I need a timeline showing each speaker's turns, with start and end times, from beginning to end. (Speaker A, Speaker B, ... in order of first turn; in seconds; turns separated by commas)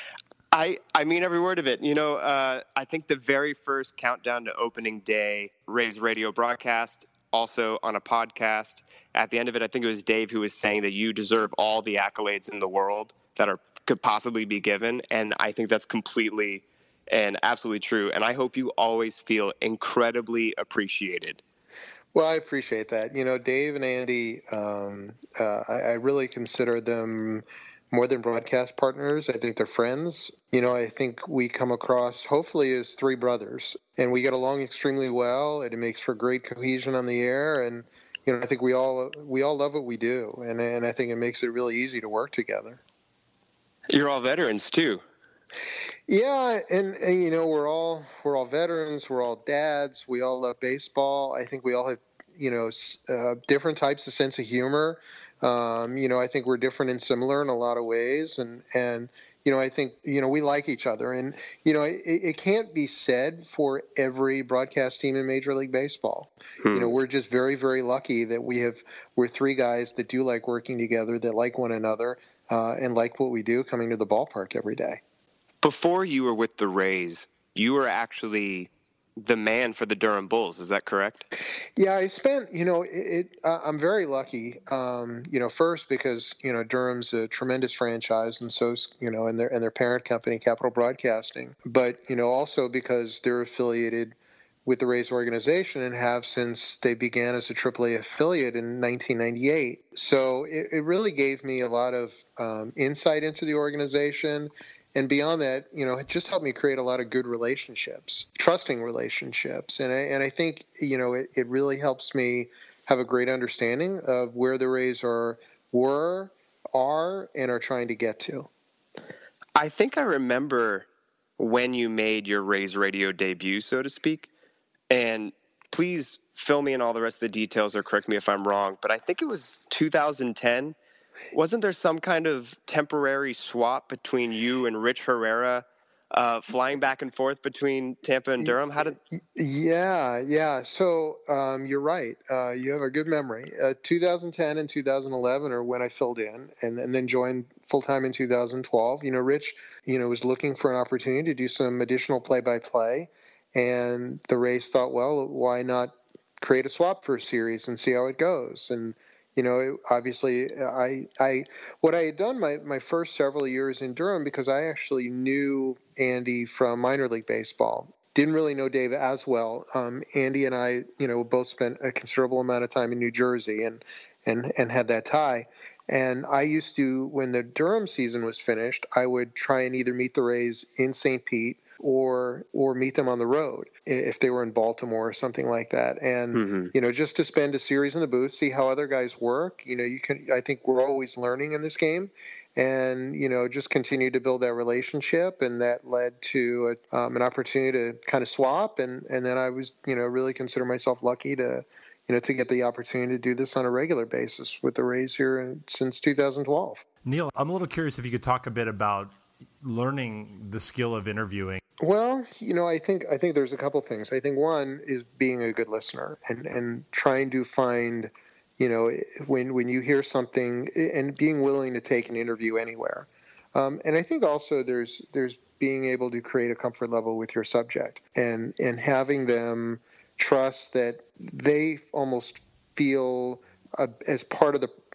Speaker A: 0.5-21.4, Speaker B: 22.1-42.8, Speaker A: 43.9-45.0, Speaker B: 46.1-75.0, Speaker A: 66.6-66.9, Speaker A: 75.6-81.2, Speaker B: 81.8-118.5, Speaker A: 119.5-120.9, Speaker A: 121.4-124.3, Speaker A: 124.9-130.8, Speaker A: 131.3-139.0, Speaker B: 139.2-206.8, Speaker A: 186.3-186.7, Speaker C: 207.0-211.6, Speaker B: 211.8-234.7